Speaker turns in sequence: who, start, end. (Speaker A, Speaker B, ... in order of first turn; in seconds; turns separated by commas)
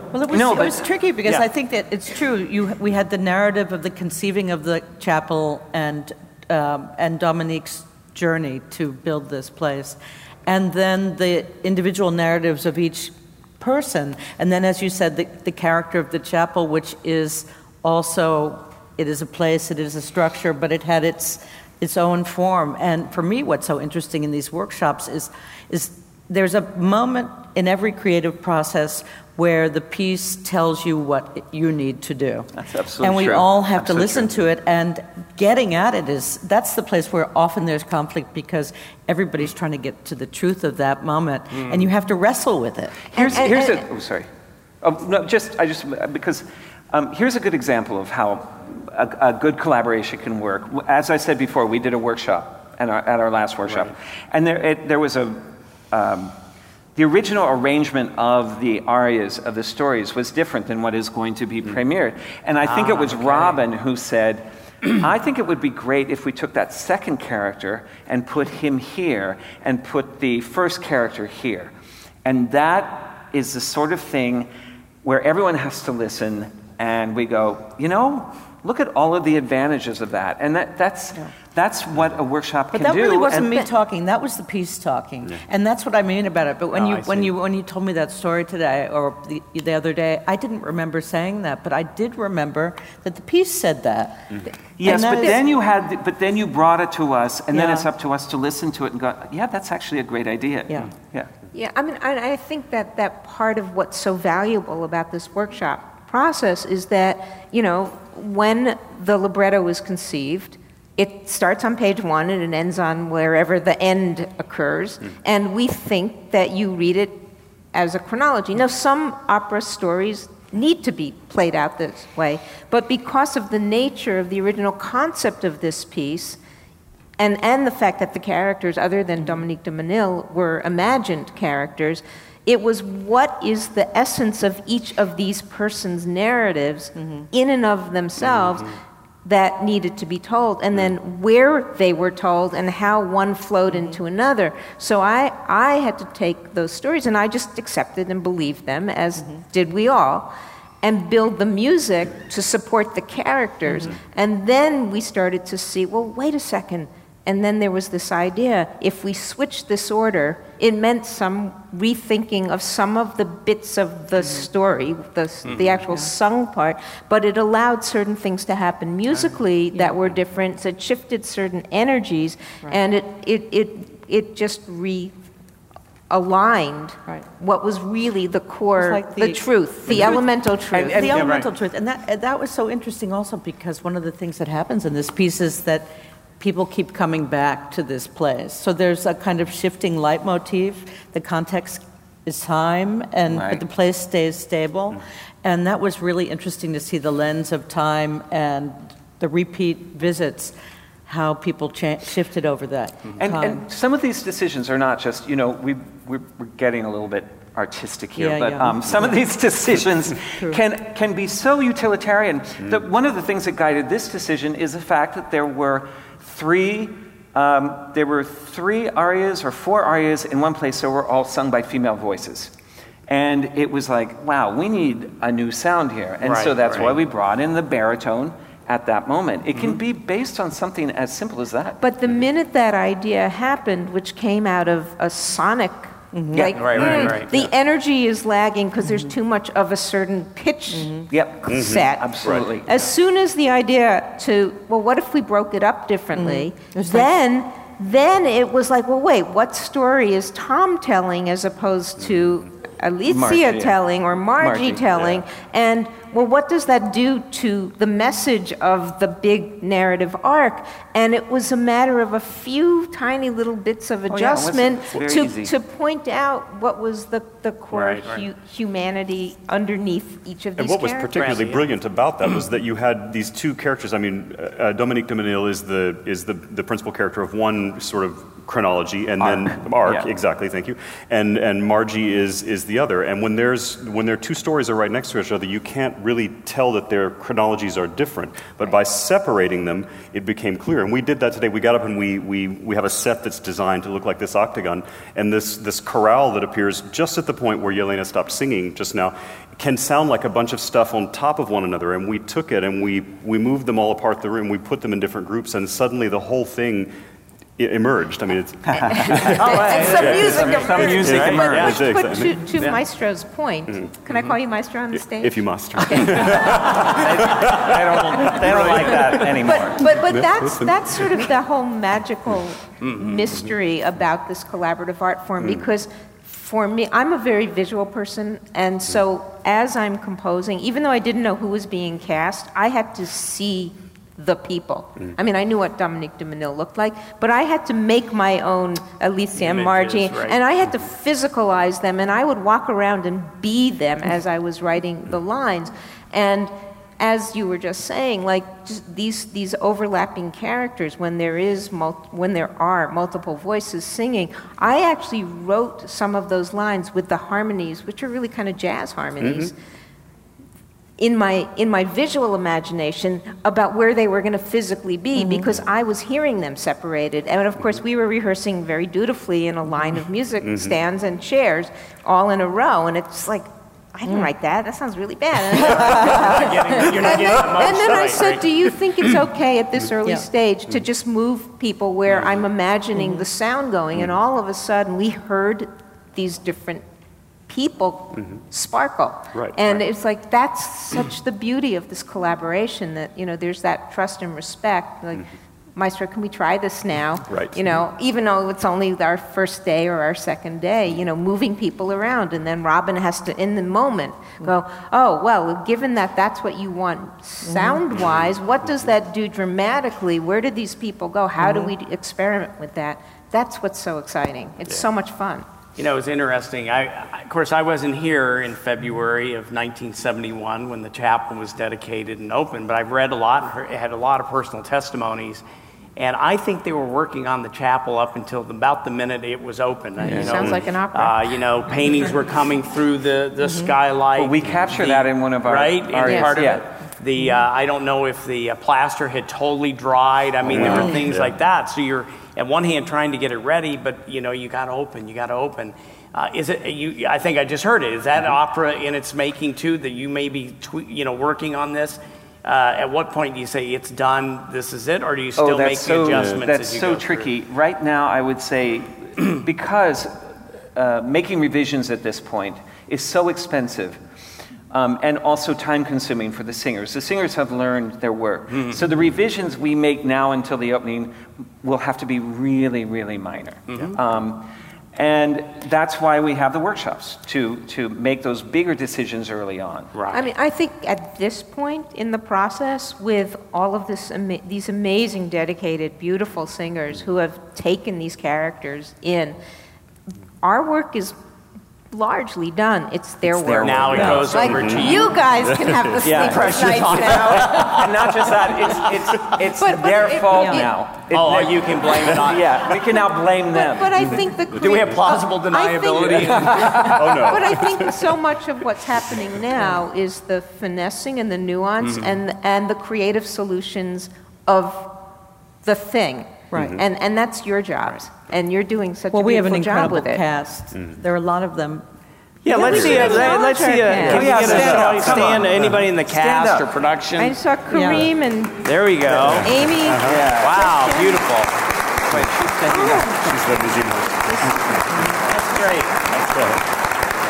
Speaker A: 0.1-43.5, Speaker B: 0.3-0.8, Speaker B: 32.6-34.4, Speaker C: 41.6-41.8, Speaker D: 43.1-43.9, Speaker B: 43.1-44.3, Speaker B: 44.8-56.4, Speaker B: 57.0-71.7, Speaker C: 62.6-63.6, Speaker B: 72.2-74.5, Speaker B: 75.0-83.7, Speaker A: 82.7-95.4, Speaker C: 86.7-87.3, Speaker B: 94.8-101.3, Speaker D: 94.9-95.3, Speaker A: 97.5-97.9, Speaker D: 101.5-117.2, Speaker D: 117.7-126.4, Speaker D: 127.2-138.7, Speaker A: 137.0-137.3, Speaker C: 138.3-138.6, Speaker D: 139.2-175.1, Speaker A: 143.7-144.0, Speaker A: 153.7-153.9, Speaker A: 164.2-164.5, Speaker C: 165.5-165.8, Speaker D: 176.1-181.2, Speaker A: 178.8-180.1, Speaker A: 180.7-200.6, Speaker B: 180.9-181.4, Speaker C: 181.2-181.4, Speaker B: 193.3-193.6, Speaker A: 201.1-203.6, Speaker B: 203.2-222.5, Speaker A: 208.2-208.9, Speaker B: 223.1-231.8, Speaker C: 226.2-227.0, Speaker C: 229.5-229.8, Speaker D: 231.8-271.1, Speaker A: 236.1-236.5, Speaker B: 236.3-237.1, Speaker C: 236.6-237.3, Speaker A: 238.8-239.1, Speaker A: 240.7-241.1, Speaker B: 241.1-242.7, Speaker E: 241.5-242.4, Speaker A: 246.1-247.1, Speaker B: 253.1-253.8, Speaker B: 254.4-255.2, Speaker B: 264.1-265.5, Speaker C: 267.7-268.2, Speaker E: 270.6-306.9, Speaker C: 271.1-271.6, Speaker B: 279.2-280.1, Speaker E: 307.6-312.7, Speaker B: 308.7-311.8, Speaker D: 309.2-316.3, Speaker C: 309.7-311.8, Speaker E: 315.0-319.3, Speaker B: 316.8-320.0, Speaker C: 318.5-318.9, Speaker D: 319.4-359.5, Speaker E: 319.9-321.1, Speaker C: 322.8-323.2, Speaker E: 325.4-325.7, Speaker C: 339.4-340.4, Speaker E: 359.2-359.5, Speaker D: 361.0-386.8, Speaker A: 365.1-365.5, Speaker E: 370.4-370.7, Speaker A: 374.1-374.3, Speaker C: 375.8-378.4, Speaker A: 383.0-383.2, Speaker D: 387.5-415.5, Speaker E: 389.3-389.8, Speaker E: 397.3-397.6, Speaker A: 407.4-407.8, Speaker E: 407.9-408.4, Speaker A: 411.4-411.7, Speaker C: 415.8-425.4, Speaker C: 426.0-457.3, Speaker D: 430.1-431.4, Speaker E: 430.2-430.6, Speaker A: 433.4-433.7, Speaker B: 434.1-436.6, Speaker E: 440.4-441.3, Speaker A: 440.7-441.0, Speaker B: 455.4-460.2, Speaker B: 460.8-464.0, Speaker B: 464.7-479.9, Speaker C: 468.5-468.8, Speaker C: 473.7-474.0, Speaker C: 479.9-480.3, Speaker D: 480.1-489.4, Speaker D: 490.4-491.2, Speaker D: 491.9-497.8, Speaker B: 493.5-494.3, Speaker C: 493.5-495.3, Speaker E: 493.9-496.5, Speaker B: 496.0-503.9, Speaker C: 496.1-498.0, Speaker D: 498.4-500.7, Speaker A: 500.3-500.7, Speaker C: 501.1-502.7, Speaker D: 503.5-514.9, Speaker C: 504.6-507.1, Speaker E: 506.8-508.1, Speaker C: 511.8-512.2, Speaker D: 515.6-520.2, Speaker A: 516.5-516.8, Speaker E: 516.5-516.8, Speaker A: 519.1-521.9, Speaker E: 520.7-521.0, Speaker C: 522.5-527.4, Speaker D: 522.5-524.6, Speaker E: 522.7-523.2, Speaker B: 523.9-526.7, Speaker E: 524.5-525.7, Speaker D: 527.2-528.7, Speaker A: 527.7-528.1, Speaker C: 528.6-529.5, Speaker E: 529.1-530.3, Speaker D: 529.2-531.3, Speaker B: 530.1-530.7, Speaker C: 530.3-531.6, Speaker B: 532.1-533.1, Speaker D: 532.7-533.6, Speaker E: 532.7-535.1, Speaker D: 534.3-534.6, Speaker C: 535.2-536.1, Speaker E: 536.1-536.6